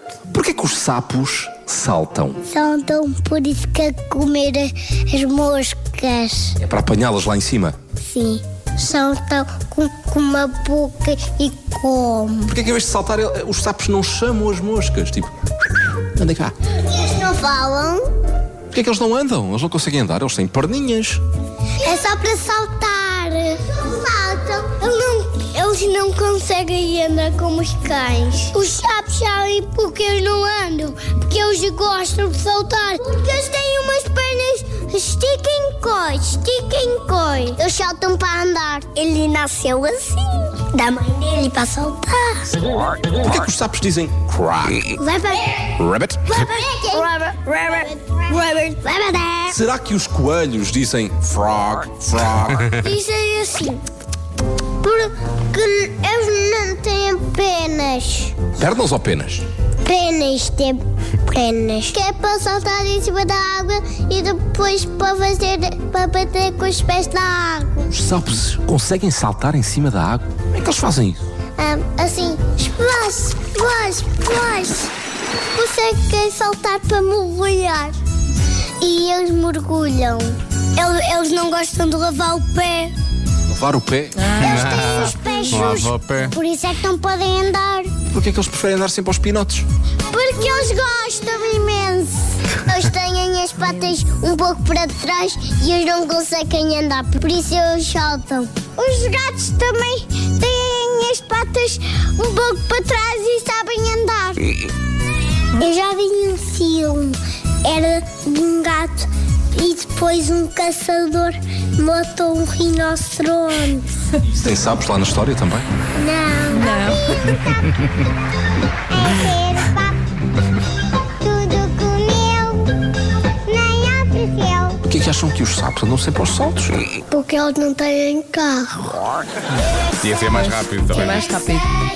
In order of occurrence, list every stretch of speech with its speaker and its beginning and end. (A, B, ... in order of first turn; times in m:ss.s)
0:00.3-0:02.4 A
0:02.5-0:06.6 B
0:06.6-0:07.8 A
0:08.0-0:12.5 B
0:12.5-0:15.3 A
0:16.2-0:16.5 A
0:16.7-0:18.1 B
0:18.7-0:21.2 A
0:21.8-0:42.6 B
0:43.2-0:44.9 A
0:45.0-0:45.7 B
0:45.7-0:46.3 A
0:46.3-0:49.6 B
0:49.5-0:52.7 A
0:52.8-0:53.8 B
0:54.8-0:58.4 B
0:58.6-0:59.4 A
0:59.8-1:07.9 B
1:07.9-1:11.2 A
1:11.6-1:14.9 B
1:15.5-1:18.0 B
1:18.8-1:22.9 B
1:23.5-1:24.2 A
1:24.2-1:25.8 C
1:24.4-1:26.3 D
1:24.4-1:27.9 B
1:28.1-1:29.6 A
1:30.1-1:44.5 B
1:45.5-1:53.9 B
1:54.3-1:55.7 A
1:56.0-1:57.6 B
1:56.5-1:57.6 C
1:58.9-2:00.0 B
2:01.2-2:02.8 B
2:03.4-2:04.8 B
2:04.9-2:06.8 A
2:07.1-2:09.1 B
2:10.0-2:11.3 D
2:10.3-2:11.7 C